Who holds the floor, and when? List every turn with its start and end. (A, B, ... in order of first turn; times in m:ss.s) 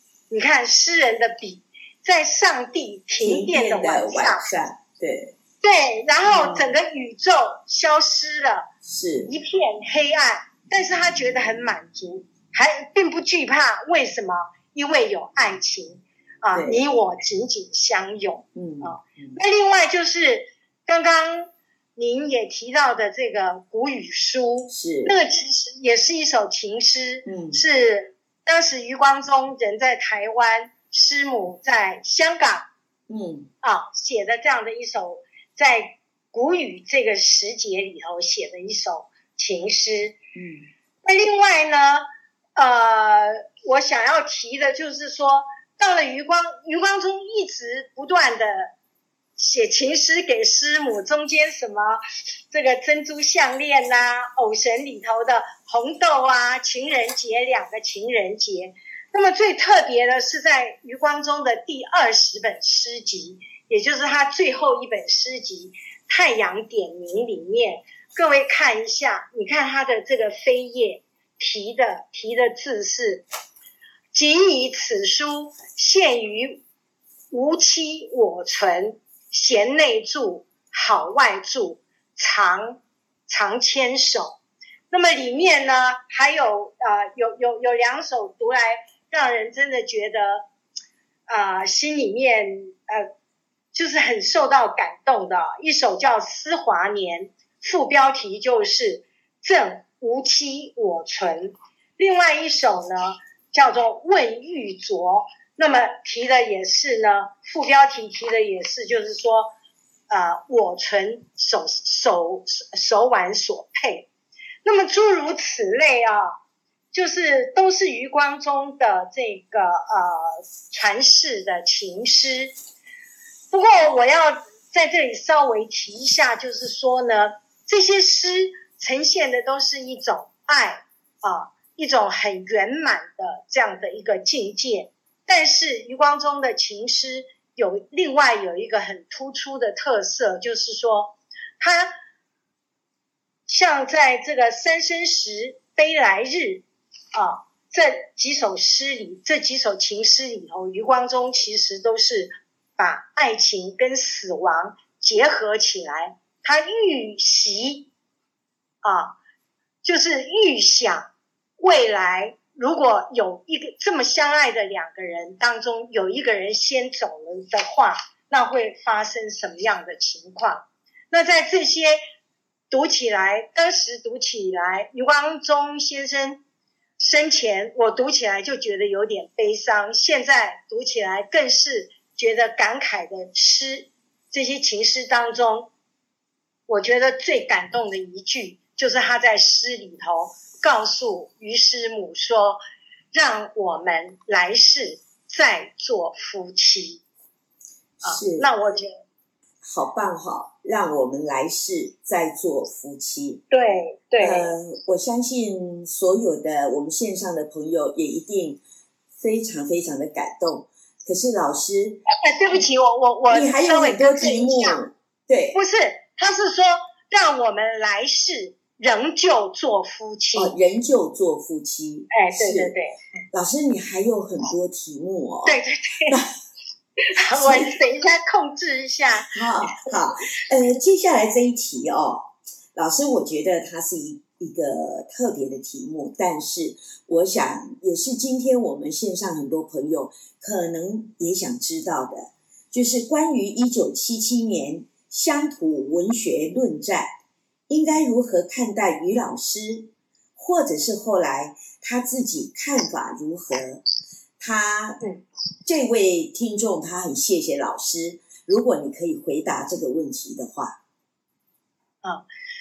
0:00.3-0:04.4 A
0:03.2-0:05.3 B
0:05.6-0:08.7 A
0:06.2-0:06.8 B
0:08.8-0:09.3 B
0:09.2-0:32.7 A
0:16.5-0:16.8 B
0:18.6-0:19.4 B
0:24.7-0:25.1 B
0:27.3-0:27.6 B
0:33.1-0:33.5 B
0:33.6-0:40.2 A
0:40.4-0:40.7 B
0:41.0-0:42.0 A
0:42.6-0:48.7 A
0:49.4-0:52.0 A
0:52.5-1:13.2 A
1:14.1-1:16.6 A
1:17.3-1:24.4 A
1:24.9-1:30.5 A
1:31.3-1:33.1 A
1:33.7-1:49.5 A
1:50.1-1:54.1 A
1:54.6-1:56.3 A
1:56.9-2:02.5 A
2:03.5-2:21.9 A
2:23.5-2:37.9 A
2:38.8-2:39.2 A
2:39.8-2:41.1 A
2:41.6-2:52.0 A
2:52.7-2:56.4 A
2:57.0-3:05.7 A
3:06.7-3:12.6 A
3:13.1-3:17.0 A
3:18.0-3:18.5 B
3:18.0-3:19.0 A
3:19.6-3:23.4 B
3:23.5-3:24.5 A
3:24.2-3:28.6 B
3:29.2-3:32.0 B
3:32.1-3:34.8 A
3:33.3-3:35.6 B
3:35.5-3:40.5 A
3:40.4-3:42.7 B
3:42.1-3:43.0 A
3:43.3-3:46.3 B
3:45.4-3:46.2 A
3:47.1-3:49.9 A
3:47.4-3:47.7 B
3:49.3-4:07.1 B
4:07.7-4:13.8 B
4:14.4-4:15.0 B
4:15.7-4:20.8 B